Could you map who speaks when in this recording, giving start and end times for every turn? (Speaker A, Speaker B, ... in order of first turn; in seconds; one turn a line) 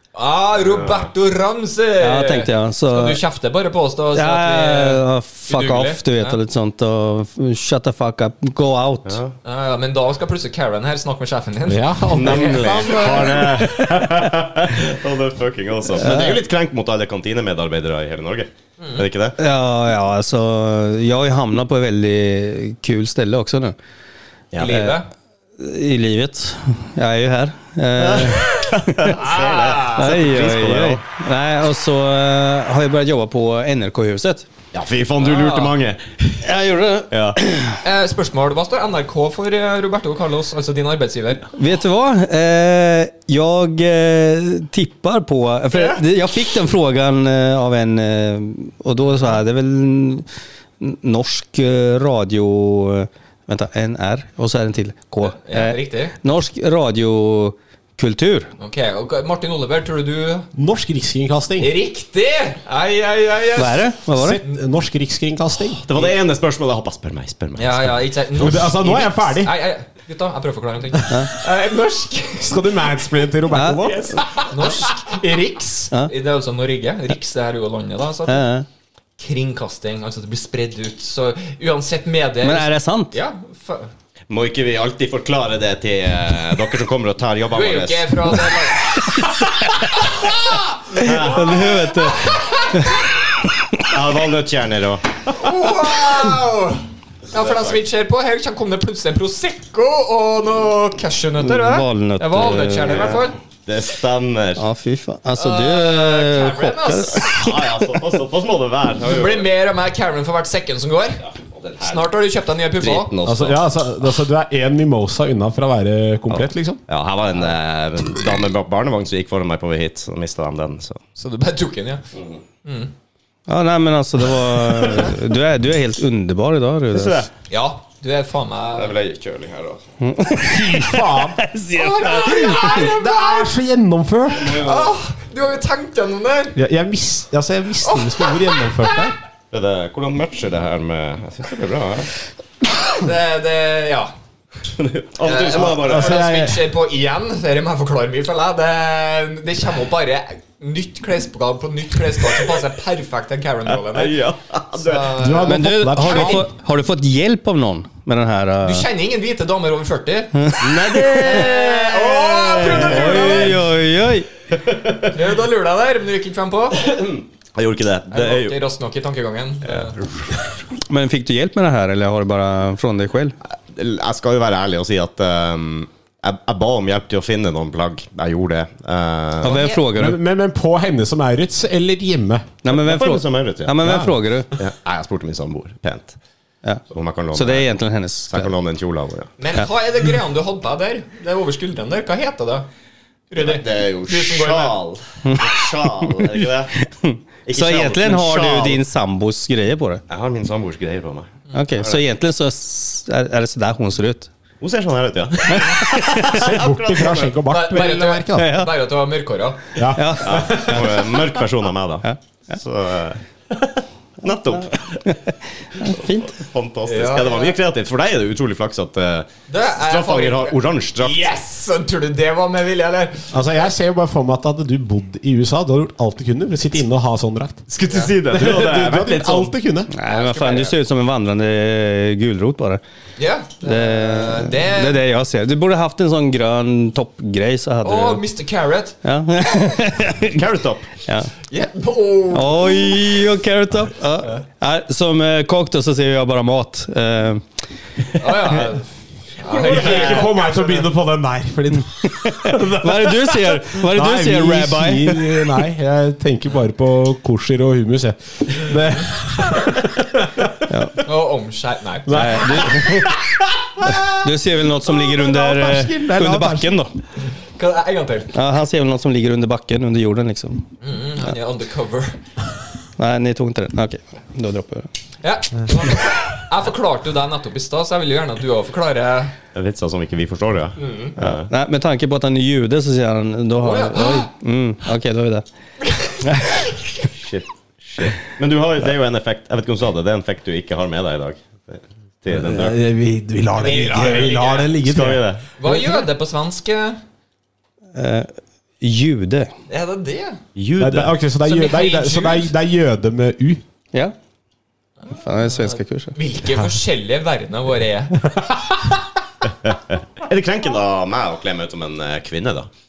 Speaker A: 0.1-6.4
Speaker B: 0.6-1.1
Speaker C: 2.0-3.2
Speaker C: 4.2-9.2
Speaker B: 9.1-9.3
Speaker A: 9.4-13.3
Speaker D: 11.7-14.3
Speaker B: 12.1-19.4
Speaker C: 16.0-16.4
Speaker C: 19.4-23.8
Speaker B: 24.5-24.9
Speaker A: 24.6-25.1
Speaker C: 25.6-29.1
Speaker B: 28.0-31.0
Speaker A: 29.1-30.1
Speaker C: 29.9-34.5
Speaker B: 34.7-36.5
Speaker A: 35.2-35.8
Speaker C: 36.4-37.8
Speaker B: 37.1-37.4
Speaker A: 37.8-41.5
Speaker C: 41.5-50.2
Speaker A: 45.7-46.0
Speaker A: 49.1-49.4
Speaker C: 50.8-58.5
Speaker A: 55.3-56.1
Speaker A: 58.6-60.5
Speaker D: 60.5-61.8
Speaker A: 61.6-64.0
Speaker C: 63.6-64.4
Speaker D: 64.1-66.0
Speaker B: 65.8-68.6
Speaker A: 67.6-72.7
Speaker D: 68.4-69.5
Speaker D: 72.4-74.9
Speaker C: 73.5-73.8
Speaker A: 73.8-78.4
Speaker C: 78.3-78.7
Speaker A: 79.2-83.9
Speaker C: 82.4-83.2
Speaker B: 84.3-88.6
Speaker A: 87.5-89.2
Speaker C: 89.4-89.7
Speaker B: 89.8-90.3
Speaker A: 90.1-90.3
Speaker C: 90.9-93.8
Speaker B: 90.9-91.9
Speaker A: 91.5-92.9
Speaker B: 93.8-95.1
Speaker A: 95.3-103.4
Speaker B: 97.3-97.8
Speaker C: 101.4-103.2
Speaker B: 102.9-104.6
Speaker C: 104.6-107.9
Speaker A: 105.4-107.3
Speaker B: 107.2-109.5
Speaker A: 109.0-111.2
Speaker B: 111.2-112.1
Speaker A: 111.8-113.1
Speaker B: 112.8-113.6
Speaker D: 113.2-116.8
Speaker B: 116.3-121.0
Speaker A: 121.2-122.0
Speaker B: 122.2-122.4
Speaker A: 122.7-122.9
Speaker C: 123.5-127.3
Speaker B: 126.9-127.3
Speaker A: 127.5-128.9
Speaker B: 128.7-129.8
Speaker C: 130.0-132.9
Speaker D: 130.4-134.6
Speaker A: 132.2-133.5
Speaker B: 134.4-134.9
Speaker A: 134.6-136.6
Speaker D: 136.6-139.2
Speaker A: 137.8-138.9
Speaker B: 139.5-142.1
Speaker A: 142.9-144.1
Speaker B: 144.7-146.3
Speaker A: 145.2-154.2
Speaker D: 145.6-146.6
Speaker B: 153.9-155.3
Speaker A: 154.8-156.4
Speaker D: 155.0-156.5
Speaker C: 155.4-158.9
Speaker A: 158.6-163.7
Speaker B: 160.6-163.7
Speaker C: 162.7-164.3
Speaker B: 164.5-165.2
Speaker A: 165.1-166.9
Speaker B: 166.8-168.6
Speaker A: 168.1-169.9
Speaker B: 169.7-170.4
Speaker C: 170.9-173.3
Speaker B: 173.5-179.7
Speaker C: 179.4-180.2
Speaker A: 179.5-179.8
Speaker D: 179.9-182.5
Speaker C: 182.6-184.5
Speaker B: 182.7-183.9
Speaker D: 183.8-184.1
Speaker B: 184.5-186.2
Speaker B: 186.9-187.7
Speaker C: 187.3-188.5
Speaker B: 188.3-189.3
Speaker A: 189.4-192.7
Speaker A: 193.3-194.8
Speaker B: 193.4-196.7
Speaker C: 195.2-200.0
Speaker B: 197.4-198.8
Speaker B: 200.1-202.0
Speaker C: 201.5-204.3
Speaker B: 204.6-207.3
Speaker C: 205.6-206.0
Speaker D: 206.1-208.6
Speaker A: 207.3-209.7
Speaker C: 208.3-208.7
Speaker D: 209.8-211.1
Speaker C: 209.9-210.9
Speaker B: 210.2-215.2
Speaker C: 214.5-216.4
Speaker B: 215.8-221.3
Speaker A: 216.9-217.6
Speaker A: 219.5-223.4
Speaker D: 223.3-227.7
Speaker B: 227.7-229.5
Speaker A: 227.8-228.2
Speaker D: 228.3-229.9
Speaker C: 229.9-232.8
Speaker A: 230.0-230.7
Speaker A: 233.2-235.0
Speaker C: 233.6-238.2
Speaker A: 237.8-239.0
Speaker C: 239.0-240.4
Speaker B: 240.3-240.9
Speaker A: 241.5-243.2
Speaker C: 242.3-247.4
Speaker A: 248.2-250.9
Speaker D: 249.5-260.6
Speaker B: 249.5-250.3
Speaker C: 252.1-255.7
Speaker C: 260.7-261.1
Speaker A: 261.0-262.8
Speaker D: 262.1-264.2
Speaker C: 262.1-263.1
Speaker C: 263.9-266.9
Speaker D: 264.8-266.8
Speaker A: 267.6-268.3
Speaker C: 268.3-270.6
Speaker A: 270.8-272.2
Speaker C: 273.0-274.9
Speaker A: 275.2-279.3
Speaker B: 279.5-281.5
Speaker A: 280.8-281.1
Speaker C: 281.2-285.4
Speaker A: 283.6-284.3
Speaker A: 285.8-286.2
Speaker C: 286.2-286.7
Speaker B: 287.1-292.8
Speaker D: 292.3-296.1
Speaker A: 293.6-294.8
Speaker B: 294.8-295.4
Speaker A: 295.6-297.0
Speaker C: 297.9-299.5
Speaker A: 299.7-300.4
Speaker B: 300.6-301.1
Speaker D: 300.8-303.6
Speaker A: 301.4-302.5
Speaker C: 305.1-306.1
Speaker A: 305.1-308.3
Speaker D: 308.4-309.0
Speaker B: 309.6-312.7